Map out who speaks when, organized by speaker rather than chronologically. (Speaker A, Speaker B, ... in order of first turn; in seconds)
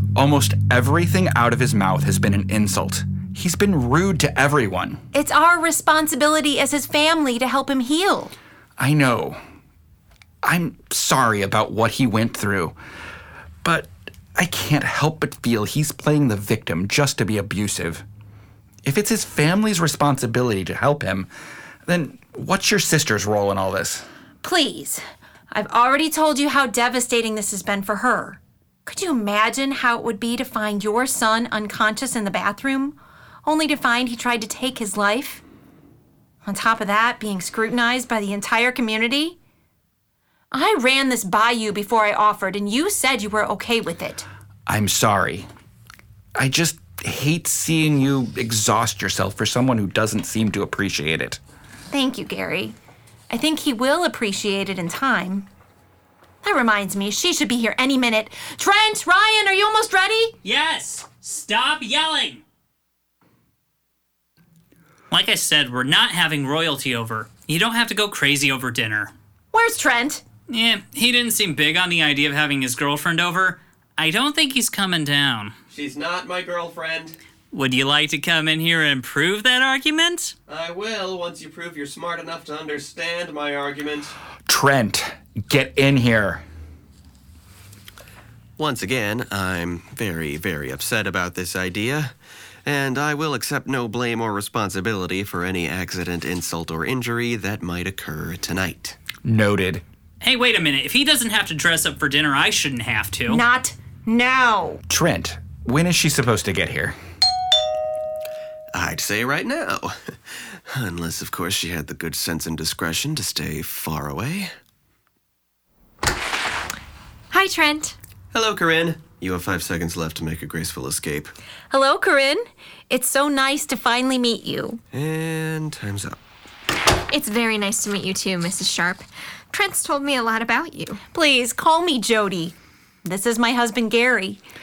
Speaker A: 0.1-5.0, 8.8-9.4, 10.4-12.8, 13.6-18.0, 18.8-21.3, 21.9-24.1, 44.6-45.5, 46.4-51.4, 84.5-86.4, 99.2-99.8, 104.9-107.0
Speaker B: 5.1-8.3, 24.4-35.4, 36.4-39.4, 40.5-44.2, 51.9-52.7, 53.3-55.5, 56.4-60.3, 69.5-70.2, 103.3-104.8, 121.7-124.8, 131.1-134.4
Speaker C: 60.4-62.4, 65.1-69.1, 70.5-75.5, 77.5-80.3, 100.2-103.4
Speaker D: 75.7-77.2, 80.5-84.1, 88.6-92.1, 92.6-99.0, 108.7-114.5, 118.3-121.3, 124.9-126.2
Speaker E: 117.3-118.0, 127.1-131.0